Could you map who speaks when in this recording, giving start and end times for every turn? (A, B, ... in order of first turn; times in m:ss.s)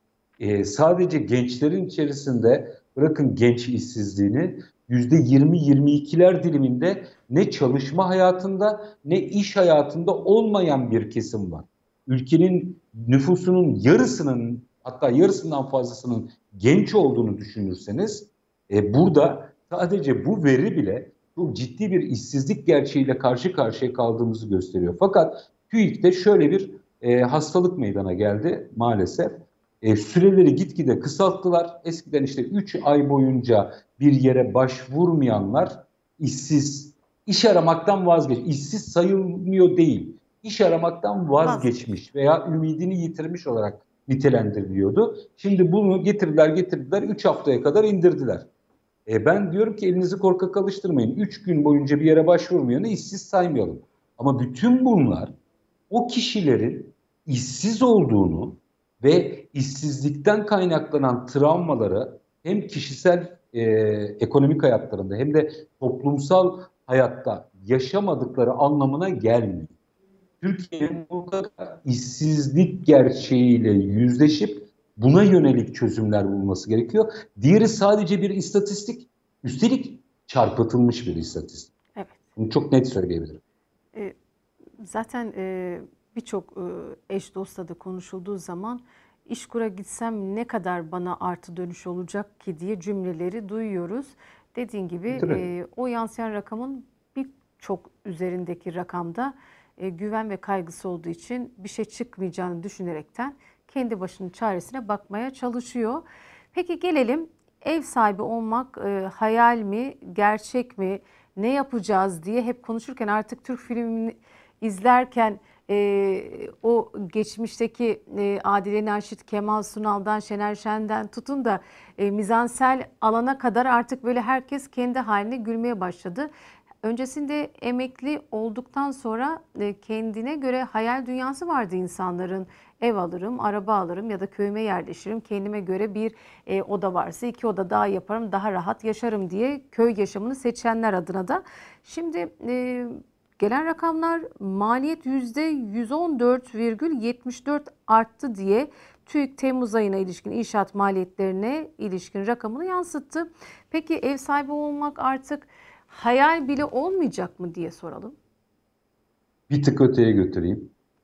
0:00.4-0:48.5 A
0:41.4-0:41.9 B
0:49.1-0:55.3 A
0:55.9-1:09.7 A
1:10.4-1:21.7 A
1:21.9-1:22.2 B
1:22.4-1:23.4 A
1:24.8-2:06.3 B
1:35.1-1:35.4 A
2:06.8-2:38.2 B
2:39.5-2:40.7 A